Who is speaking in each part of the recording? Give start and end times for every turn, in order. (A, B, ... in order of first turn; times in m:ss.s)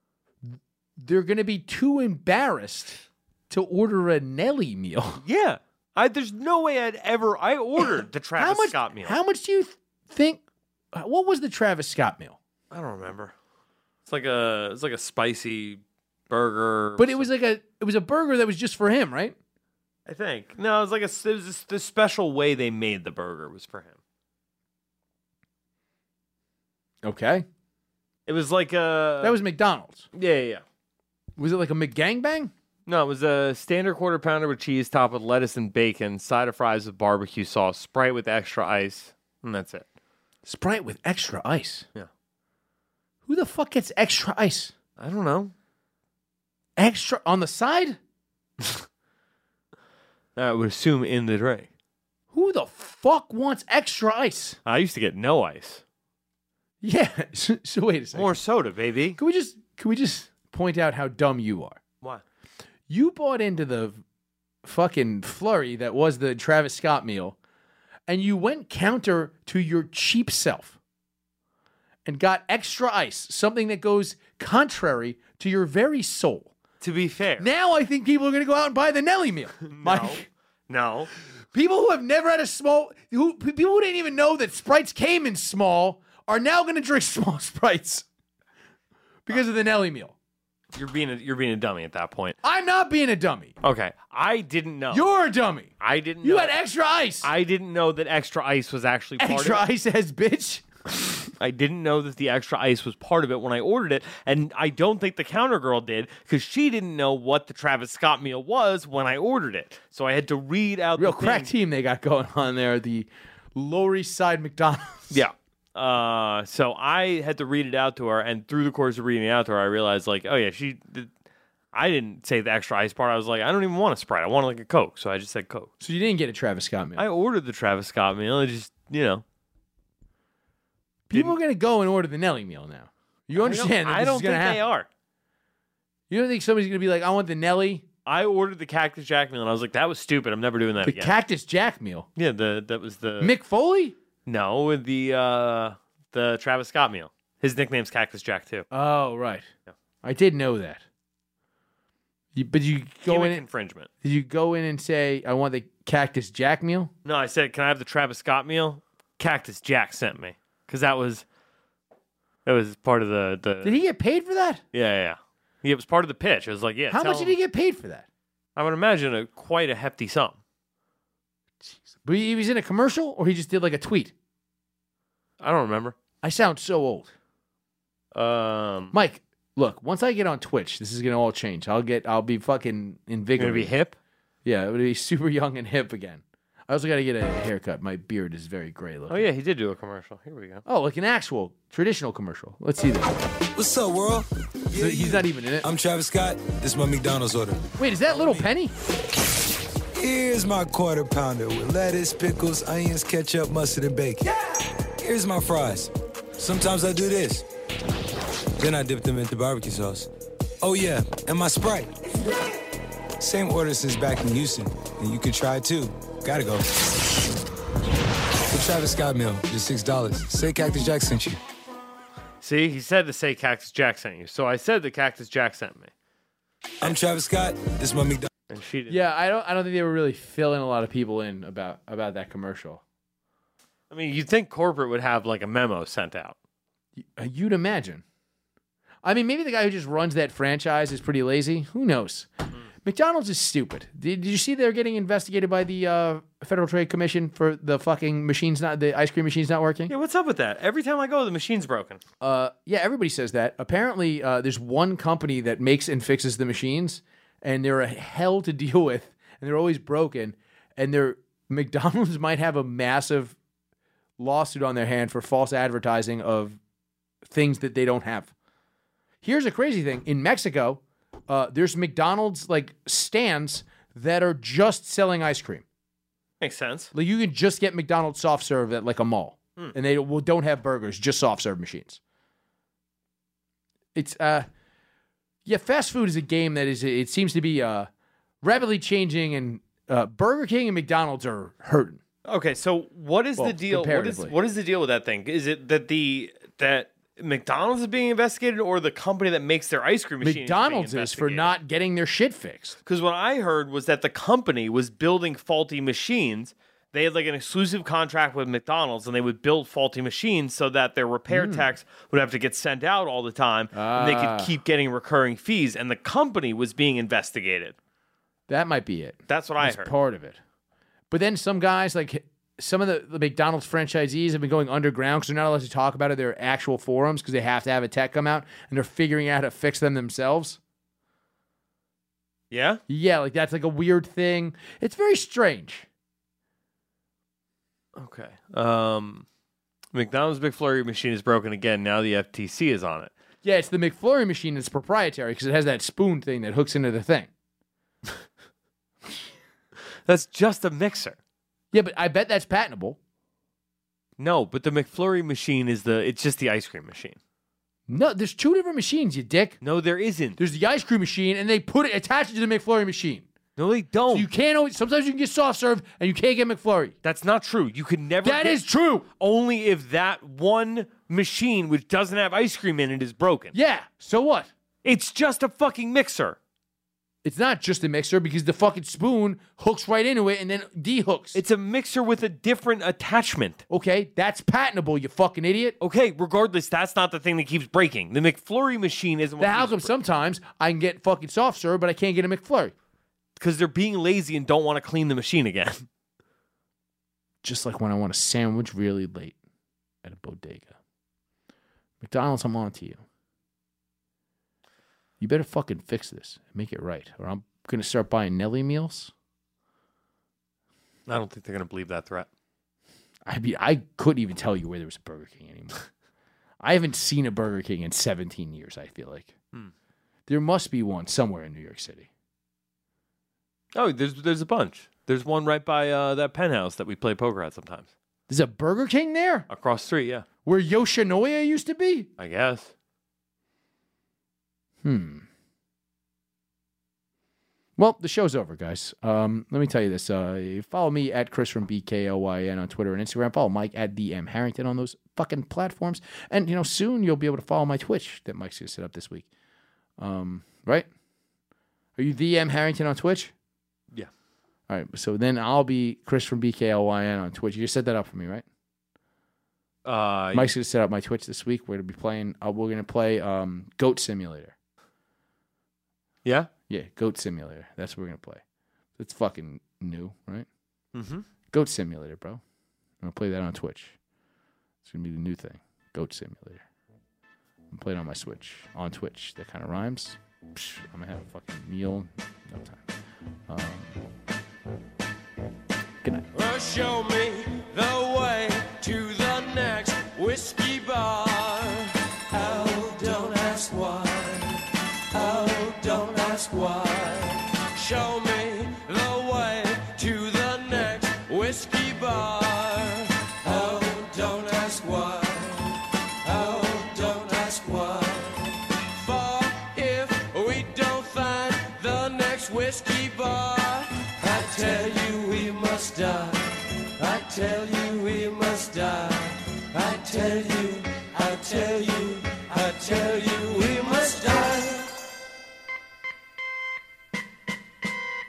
0:01.0-0:05.2 A
0:05.2-0:09.2 B
0:07.8-0:10.4 A
0:10.9-0:12.4 A
0:12.7-0:13.3 B
0:14.0-0:17.3 B
0:17.0-0:19.4 A
0:20.1-0:24.0 B
0:27.0-0:27.4 A
0:28.3-0:29.4 B
0:29.2-0:30.0 A
0:30.1-0:30.6 B
0:31.4-0:32.5 A
0:32.9-0:39.8 B
0:40.4-0:41.9 A
0:43.3-0:44.7 A
0:45.0-0:45.5 B
0:46.8-0:48.0 A
0:50.4-0:51.7 B
0:52.3-0:54.6 A
0:54.6-0:55.8 B
0:56.8-0:58.3 A
0:58.1-0:59.2 B
0:59.2-1:01.8 A
1:02.9-1:04.0 A
1:04.6-1:07.4 A
1:08.1-1:10.8 A
1:12.0-1:16.5 A
1:16.8-1:17.5 B
1:17.4-1:20.2 A
1:19.7-1:21.1 B
1:21.5-1:28.0 A
1:29.2-1:30.1 A
1:30.7-1:32.4 B
1:32.4-1:33.5 A
1:33.6-1:35.1 B
1:34.9-1:35.7 A
1:35.8-1:36.5 B
1:36.2-1:37.3 A
1:37.2-1:39.6 B
1:39.2-1:40.7 A
1:41.4-1:51.5 B
1:51.0-1:55.2 A
1:55.1-2:01.1 B
2:01.7-2:05.7 B
2:05.8-2:07.0 A
2:07.0-2:09.2 B
2:11.1-2:14.6 A
2:13.4-2:14.9 B
2:16.1-2:17.8 A
2:18.0-2:21.1 B
2:20.8-2:22.1 A
2:22.2-2:23.3 B
2:23.2-2:23.9 A
2:24.2-2:28.6 B
2:28.7-2:29.5 A
2:30.0-2:30.8 A
2:32.3-2:33.4 A
2:33.0-2:33.9 B
2:34.0-2:36.9 A
2:37.0-2:41.2 B
2:42.4-2:43.8 B
2:43.6-2:44.6 A
2:44.7-2:47.4 B
2:46.9-2:48.0 A
2:48.6-2:50.4 B
2:52.0-2:54.1 A
2:55.4-2:56.0 B
2:56.2-2:57.1 A
2:58.1-2:59.0 B
2:58.9-3:03.7 A
3:03.4-3:04.0 B
3:04.4-3:09.3 A
3:09.1-3:10.6 B
3:10.6-3:13.1 A
3:13.5-3:17.7 C
3:14.7-3:15.6 A
3:17.8-3:18.7 A
3:18.1-3:18.4 B
3:19.9-3:24.3 C
3:25.0-3:27.4 C
3:28.6-3:30.1 C
3:30.6-3:31.9 C
3:33.2-3:36.8 C
3:38.5-3:41.4 C
3:42.4-3:45.9 B
3:46.8-3:48.3 C
3:48.5-3:49.0 B
3:48.9-3:52.8 A
3:53.9-3:56.4 B
3:57.0-3:58.0 A
3:59.0-4:02.3 A
4:02.8-4:09.9 A
4:09.9-4:12.0 B
4:12.2-4:23.4 A
4:24.2-4:26.6 A
4:27.2-4:28.3 A
4:29.2-4:35.6 A
4:36.4-4:36.9 B
4:36.9-4:42.0 A
4:43.9-4:44.5 A
4:45.4-4:47.9 A
4:48.4-4:52.0 A
4:52.2-5:01.5 B
4:53.4-4:54.3 A
5:00.2-5:02.8 A
5:02.8-5:17.7 B
5:11.3-5:11.7 A
5:13.7-5:14.5 A
5:18.5-5:20.4 A
5:19.3-5:19.9 B
5:21.1-5:30.6 A
5:32.5-5:32.8 B
5:32.9-5:35.8 A
5:38.0-5:39.2 B
5:39.9-5:43.1 B
5:43.4-5:47.3 A
5:50.1-5:51.2 B
5:51.7-5:53.0 A
5:54.2-5:57.2 B
5:57.9-5:59.6 A
5:59.6-6:00.4 B
6:00.4-6:03.3 A
6:03.6-6:04.3 B
6:04.1-6:06.9 A
6:07.0-6:08.6 B
6:08.2-6:09.1 A
6:09.2-6:13.5 B
6:13.5-6:14.5 A
6:14.8-6:16.4 B
6:17.2-6:21.4 A
6:21.3-6:23.6 B
6:23.7-6:25.8 A
6:25.8-6:29.9 B
6:29.4-6:32.7 A
6:33.4-6:35.8 B
6:37.4-6:39.4 A
6:40.0-6:40.7 A
6:42.0-6:43.0 A
6:45.2-6:49.1 A
6:51.1-6:52.3 B
6:53.3-6:55.9 A
6:56.6-6:59.3 A
7:00.3-7:02.1 A
7:03.7-7:07.9 B
7:08.3-7:09.5 A
7:09.5-7:10.2 B
7:10.4-7:12.1 A
7:12.2-7:12.7 B
7:14.8-7:15.2 A
7:17.8-7:29.2 A
7:30.0-7:30.9 A
7:32.0-7:33.3 A
7:34.7-7:38.4 A
7:39.8-7:40.5 B
7:40.3-7:44.5 A
7:46.2-7:46.5 B
7:46.7-7:48.4 A
7:49.0-7:50.5 A
7:50.9-7:51.2 B
7:51.5-7:52.4 A
7:53.0-7:54.0 A
7:54.8-7:56.6 A
7:57.7-8:02.8 A
8:03.5-8:04.0 A
8:06.3-8:44.9 D